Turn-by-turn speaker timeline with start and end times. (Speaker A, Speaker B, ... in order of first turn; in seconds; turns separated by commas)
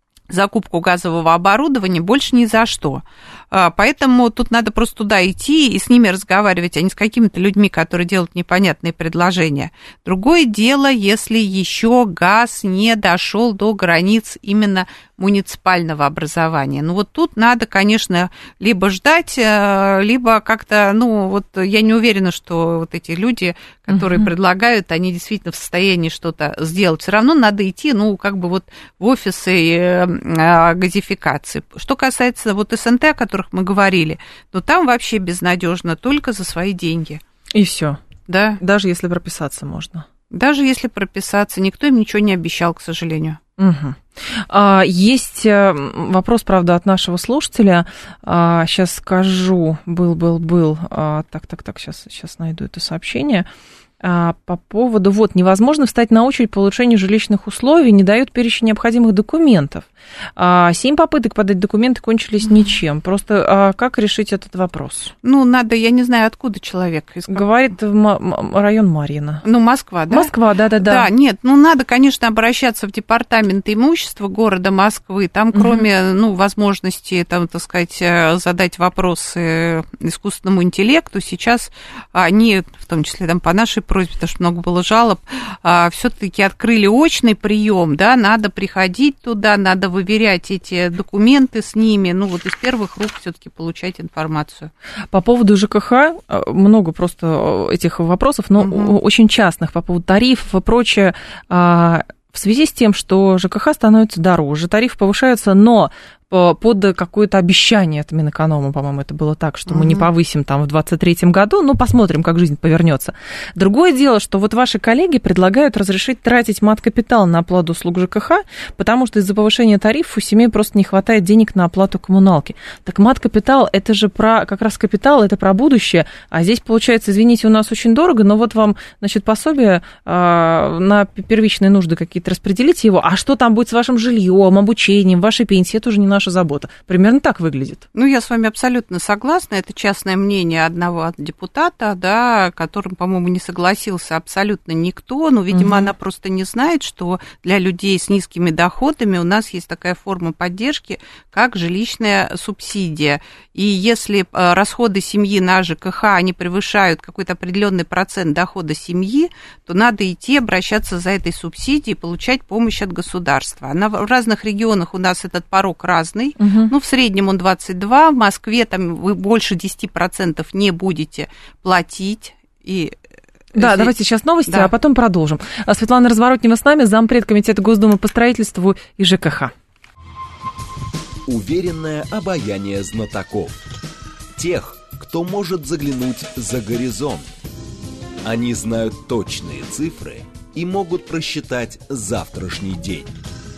Speaker A: 0.3-37.2, Speaker B: 23.9-24.3, Speaker B: 37.5-38.0, Speaker A: 38.3-38.6, Speaker B: 38.6-40.1, Speaker A: 40.3-43.4, Speaker B: 43.6-53.5, Speaker B: 54.0-65.1, Speaker A: 65.2-67.4, Speaker B: 67.3-69.4, Speaker A: 69.4-94.7, Speaker B: 70.1-71.1, Speaker B: 75.5-75.8, Speaker B: 95.1-137.8, Speaker A: 98.6-98.9, Speaker A: 109.7-110.1, Speaker A: 137.9-173.0, Speaker B: 145.5-145.9, Speaker B: 166.4-166.7, Speaker A: 173.5-173.9, Speaker B: 173.5-179.5, Speaker A: 174.4-174.7, Speaker C: 181.3-183.6, Speaker C: 184.3-187.2, Speaker C: 188.2-193.1